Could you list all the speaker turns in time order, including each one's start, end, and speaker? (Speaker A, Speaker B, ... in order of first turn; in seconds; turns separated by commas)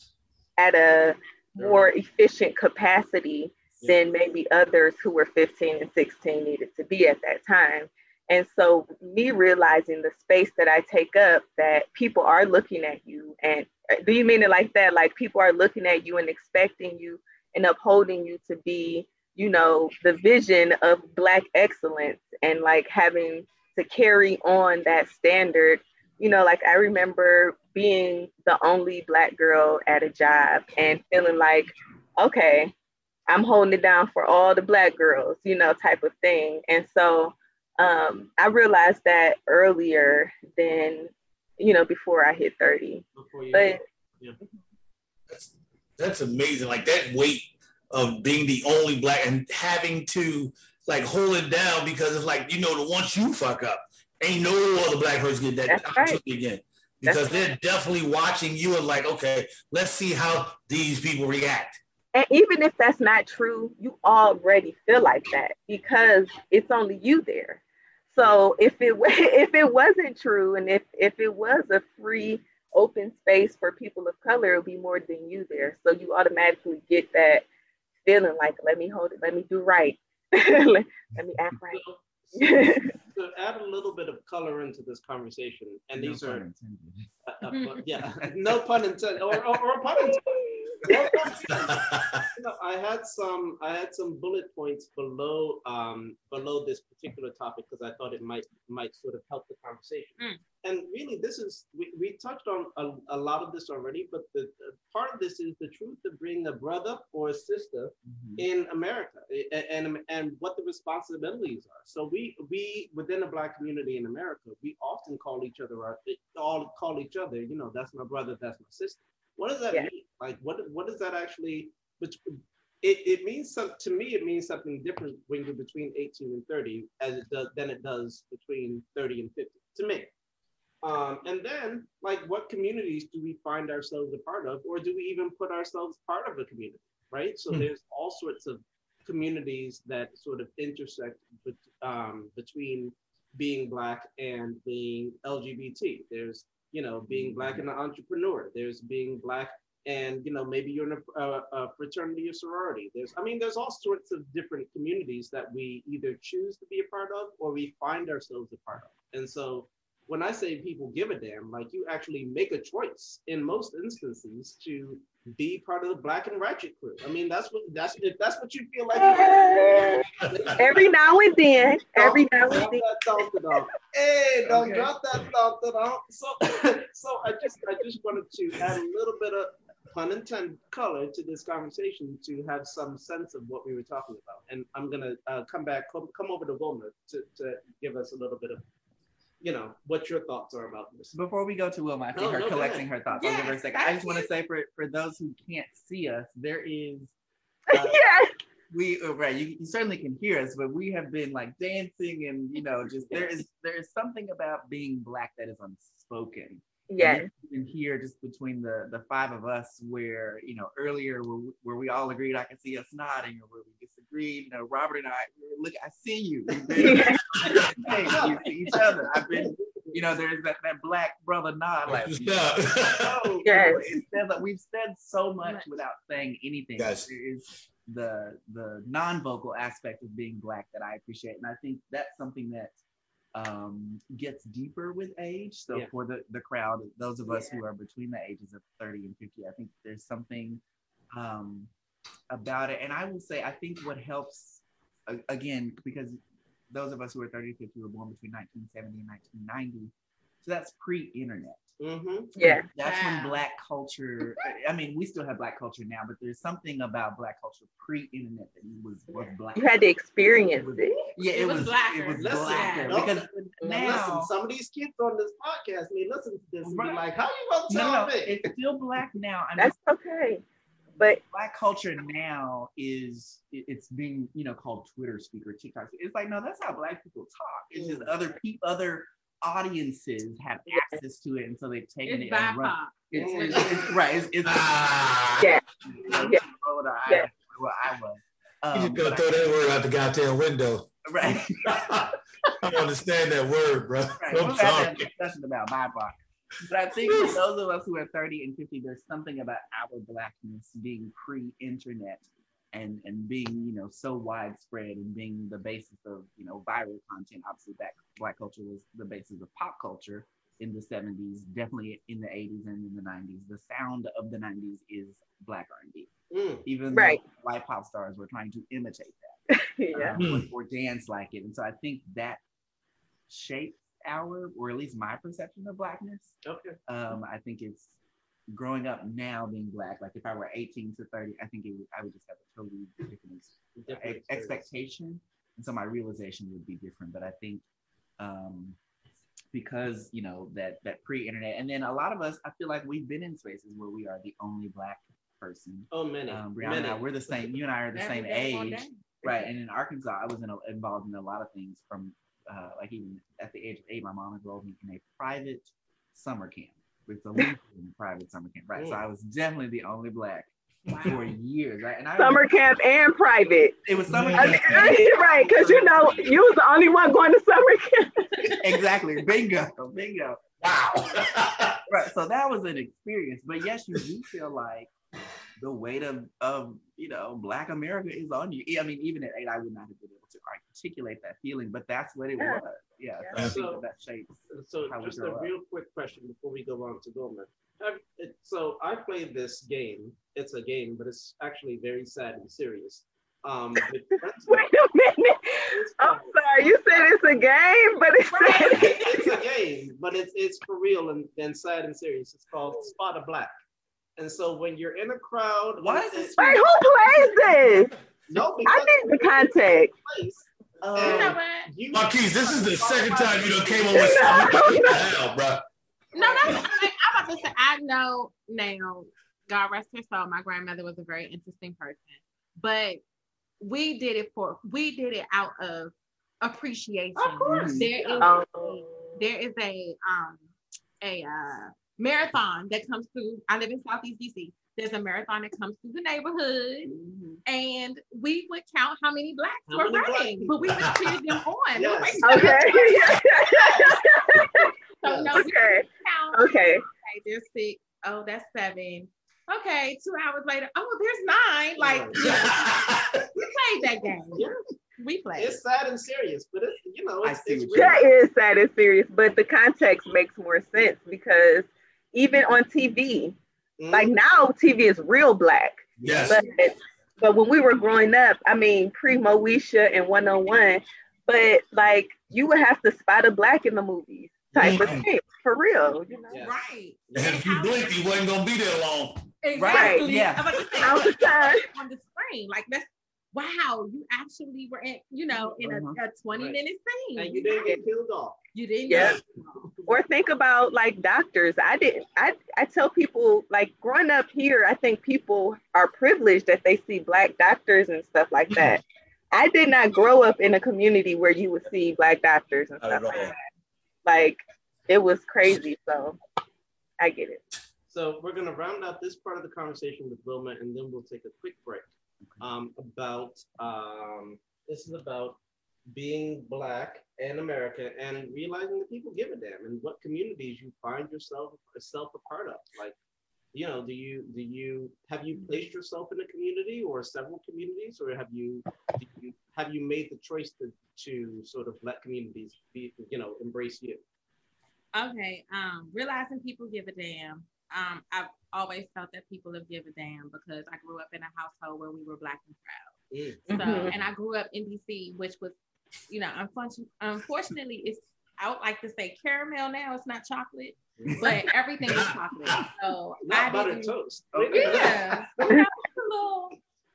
Speaker A: 0.6-32.7, Speaker B: 1.6-1.9, Speaker A: 33.3-43.8, Speaker B: 43.1-44.4, Speaker C: 45.3-61.8, Speaker A: 55.7-56.2, Speaker A: 62.1-67.6, Speaker A: 68.1-77.5, Speaker A: 78.1-81.8, Speaker B: 81.7-86.4, Speaker A: 82.4-82.9, Speaker D: 86.0-87.2, Speaker B: 87.3-90.2, Speaker E: 87.5-87.8, Speaker D: 87.9-88.6, Speaker A: 90.0-91.1, Speaker B: 90.8-91.8, Speaker C: 91.4-92.3, Speaker B: 92.4-130.1, Speaker D: 108.1-108.5, Speaker B: 130.8-170.9, Speaker D: 147.1-147.6, Speaker A: 168.9-172.8, Speaker C: 170.2-170.5, Speaker B: 171.9-188.6, Speaker D: 174.4-174.9, Speaker B: 189.4-191.2, Speaker D: 191.1-197.1, Speaker B: 192.1-192.9, Speaker E: 193.1-194.3, Speaker D: 197.7-198.0, Speaker A: 197.7-198.3, Speaker D: 198.7-232.8, Speaker A: 206.9-207.3, Speaker A: 216.8-217.2, Speaker C: 217.3-217.6, Speaker B: 218.2-219.6, Speaker E: 218.2-218.7, Speaker C: 221.9-223.2, Speaker A: 223.4-223.8, Speaker E: 225.4-225.7, Speaker C: 226.8-227.1, Speaker D: 233.3-240.6, Speaker D: 241.1-241.7, Speaker D: 242.3-246.2, Speaker D: 246.7-249.9, Speaker D: 250.4-251.7, Speaker B: 251.8-252.3, Speaker A: 252.4-252.7, Speaker D: 252.4-259.7, Speaker E: 252.8-253.4, Speaker A: 259.6-260.9, Speaker D: 260.6-264.3, Speaker E: 261.3-263.0, Speaker B: 262.1-268.5, Speaker A: 263.6-263.9, Speaker D: 266.6-267.0, Speaker D: 267.7-269.8, Speaker A: 269.6-270.4, Speaker D: 271.3-284.7, Speaker B: 277.8-278.1, Speaker E: 282.1-284.0, Speaker B: 283.1-283.9, Speaker C: 284.4-285.5, Speaker A: 285.4-286.4, Speaker D: 285.9-289.6, Speaker C: 288.7-290.9, Speaker D: 291.1-291.8, Speaker C: 291.6-295.1, Speaker D: 294.2-316.1, Speaker C: 297.1-297.3, Speaker B: 316.3-316.6, Speaker D: 316.6-319.4, Speaker A: 316.9-317.2, Speaker A: 319.5-320.2, Speaker D: 319.9-322.4, Speaker C: 320.2-320.5, Speaker D: 323.3-328.0, Speaker B: 326.4-326.8, Speaker D: 328.5-337.6, Speaker B: 333.8-334.7, Speaker D: 338.2-338.8, Speaker D: 339.5-362.5, Speaker B: 345.9-347.6, Speaker E: 347.9-349.5, Speaker B: 358.7-359.0, Speaker E: 360.9-361.2, Speaker A: 362.2-363.8, Speaker D: 363.9-366.3, Speaker C: 364.1-364.8, Speaker A: 364.4-368.6, Speaker D: 368.6-370.4, Speaker C: 370.6-371.8, Speaker D: 371.9-374.9, Speaker D: 375.6-385.5, Speaker A: 382.4-382.6, Speaker B: 383.4-383.8, Speaker B: 384.5-394.7, Speaker A: 394.5-399.4, Speaker B: 395.7-397.2, Speaker E: 398.3-399.3, Speaker B: 398.7-403.5, Speaker B: 404.2-406.6, Speaker D: 405.8-407.3, Speaker A: 406.4-407.9, Speaker B: 408.3-414.0, Speaker A: 408.6-409.9, Speaker D: 410.8-411.4, Speaker E: 411.0-411.7, Speaker C: 411.9-415.6, Speaker A: 413.9-415.1, Speaker E: 416.1-423.0, Speaker E: 423.6-430.4, Speaker B: 427.2-428.4, Speaker D: 427.5-427.9, Speaker A: 428.2-429.2, Speaker E: 431.0-443.9, Speaker D: 436.9-437.4, Speaker B: 439.7-440.6, Speaker B: 441.8-442.5, Speaker A: 442.2-444.7, Speaker E: 445.0-452.7, Speaker B: 445.0-445.4, Speaker A: 445.3-446.8, Speaker B: 451.8-452.3, Speaker C: 452.2-453.3, Speaker E: 453.4-454.5, Speaker E: 455.0-455.6, Speaker B: 455.4-458.0, Speaker D: 457.2-458.0, Speaker A: 457.7-463.4, Speaker B: 463.8-464.1, Speaker A: 463.9-476.4, Speaker D: 466.0-466.4, Speaker C: 466.0-466.4, Speaker C: 474.5-475.1, Speaker B: 476.3-476.5, Speaker E: 476.4-478.0, Speaker C: 477.1-479.3, Speaker E: 479.4-487.8, Speaker D: 479.6-480.5, Speaker A: 479.7-480.1, Speaker C: 480.6-481.0, Speaker A: 480.8-481.7, Speaker D: 485.6-486.0, Speaker B: 487.2-488.4, Speaker E: 488.5-489.7, Speaker A: 488.9-489.2, Speaker A: 489.9-503.4, Speaker C: 502.8-503.4, Speaker A: 504.1-506.2, Speaker A: 507.0-507.4, Speaker B: 507.9-511.9, Speaker B: 512.4-515.4, Speaker B: 515.9-523.0, Speaker B: 523.5-534.0, Speaker E: 534.9-542.9, Speaker B: 543.1-543.5, Speaker E: 543.5-545.6, Speaker A: 543.5-543.9, Speaker E: 546.1-554.0, Speaker B: 551.0-551.2, Speaker C: 551.9-552.7, Speaker B: 553.2-555.5, Speaker D: 554.3-555.0, Speaker E: 554.5-556.6